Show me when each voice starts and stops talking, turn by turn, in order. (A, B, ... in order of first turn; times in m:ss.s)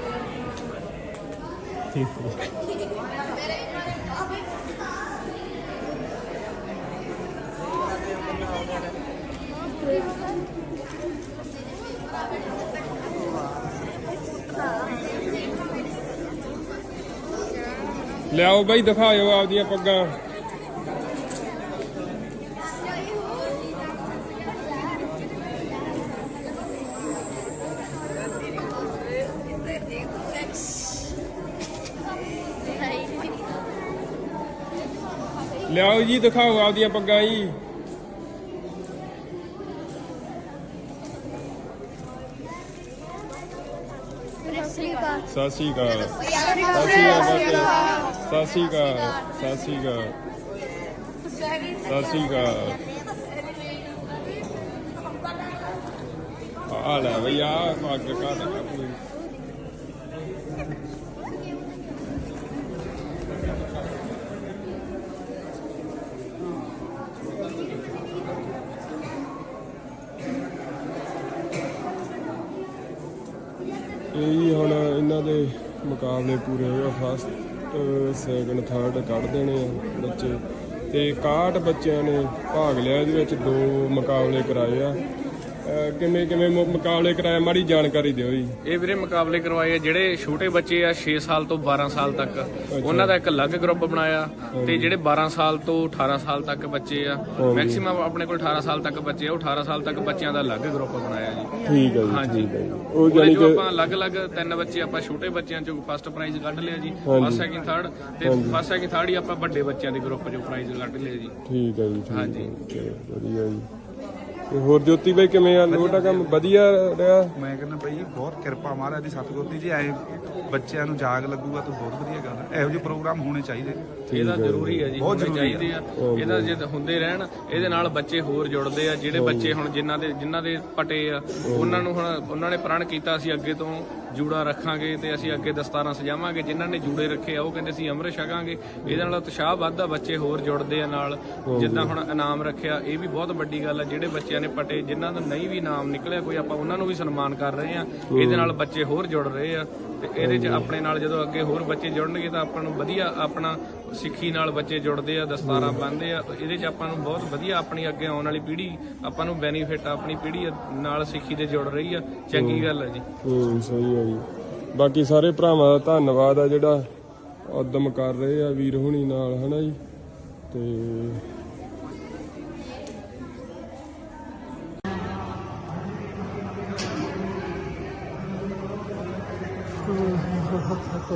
0:01.9-0:02.4 A
0:18.3-0:20.1 A
0:35.7-0:37.6 A
0:45.2-0:50.2 A
0:51.8-0:52.8 A
0:56.7-0:59.0 A
1:14.1-1:25.0 A
1:25.6-1:28.6 A
1:28.6-1:41.5 B
1:32.8-1:33.1 A
1:34.6-1:34.9 A
1:37.4-1:37.8 A
1:41.6-1:43.6 A
1:42.1-1:42.5 B
1:43.0-1:51.3 B
1:47.0-1:47.5 A
1:48.2-1:48.6 A
1:51.4-1:53.7 A
1:52.1-1:52.5 B
1:54.5-1:57.3 A
1:55.7-1:56.4 C
1:57.3-2:04.0 C
2:04.1-2:04.9 A
2:04.1-2:43.0 B
2:05.0-2:05.7 C
2:06.0-2:06.6 A
2:07.5-2:07.9 A
2:09.1-2:09.6 A
2:11.4-2:11.9 A
2:15.2-2:15.5 A
2:18.8-2:19.1 A
2:21.5-2:22.0 A
2:28.1-2:28.6 A
2:30.2-2:30.7 A
2:35.4-2:35.8 A
2:42.3-2:42.7 A
2:43.2-2:46.8 A
2:47.5-2:49.8 A
2:50.5-2:51.2 A